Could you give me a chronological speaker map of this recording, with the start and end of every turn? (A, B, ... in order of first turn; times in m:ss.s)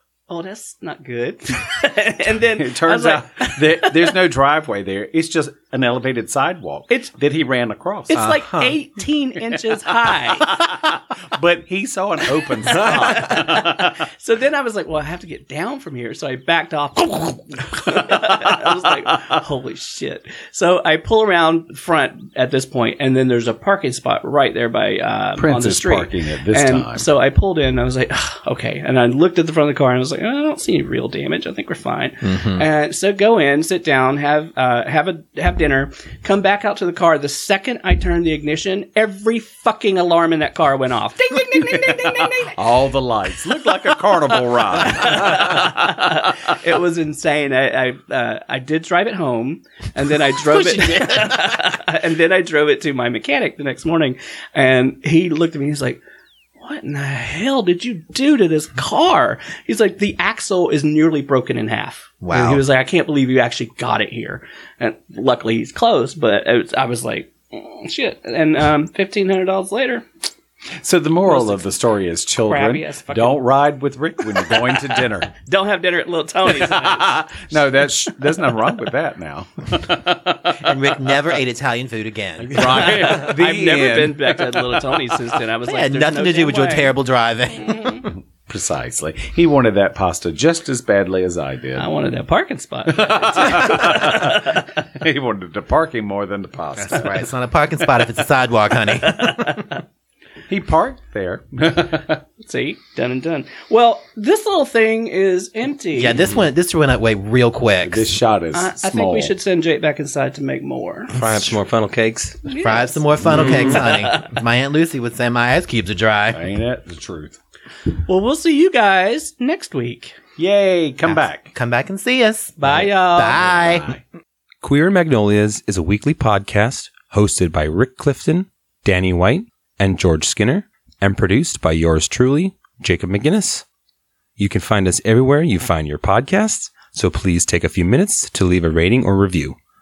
0:00.3-0:04.1 A
0:02.5-0:08.2 B
0:08.1-0:10.6 A
0:08.1-0:08.8 C
0:10.3-0:14.0 B
0:12.6-0:42.6 A
0:25.4-0:27.1 B
0:32.2-0:32.6 C
0:41.5-0:45.7 B
0:44.8-0:56.0 A
0:50.5-0:51.4 C
0:56.6-1:10.0 A
1:02.2-1:02.6 C
1:10.8-1:15.3 B
1:11.3-1:11.7 A
1:12.4-1:13.4 A
1:14.5-1:17.6 A
1:16.5-1:20.7 B
1:20.6-1:23.1 C
1:22.4-1:25.0 B
1:22.6-1:26.9 A
1:25.6-1:28.1 C
1:27.7-1:28.0 A
1:28.4-1:31.9 B
1:31.8-1:34.6 A
1:32.9-1:37.2 B
1:36.8-1:39.6 C
1:39.2-1:39.7 A
1:40.5-1:42.2 B
1:42.4-1:46.2 A
1:45.9-1:48.1 C
1:47.8-1:49.3 B
1:48.5-1:51.2 A
1:51.1-1:52.4 D
1:52.4-1:53.5 A
1:52.6-1:56.4 C
1:53.3-1:53.7 B
1:53.3-1:53.9 D
1:56.3-1:57.4 B
1:58.0-2:00.2 A
2:00.4-2:01.5 B
2:01.0-2:03.9 C
2:02.6-2:03.4 A
2:03.3-2:04.0 B
2:04.6-2:13.6 D
2:14.4-2:19.6 D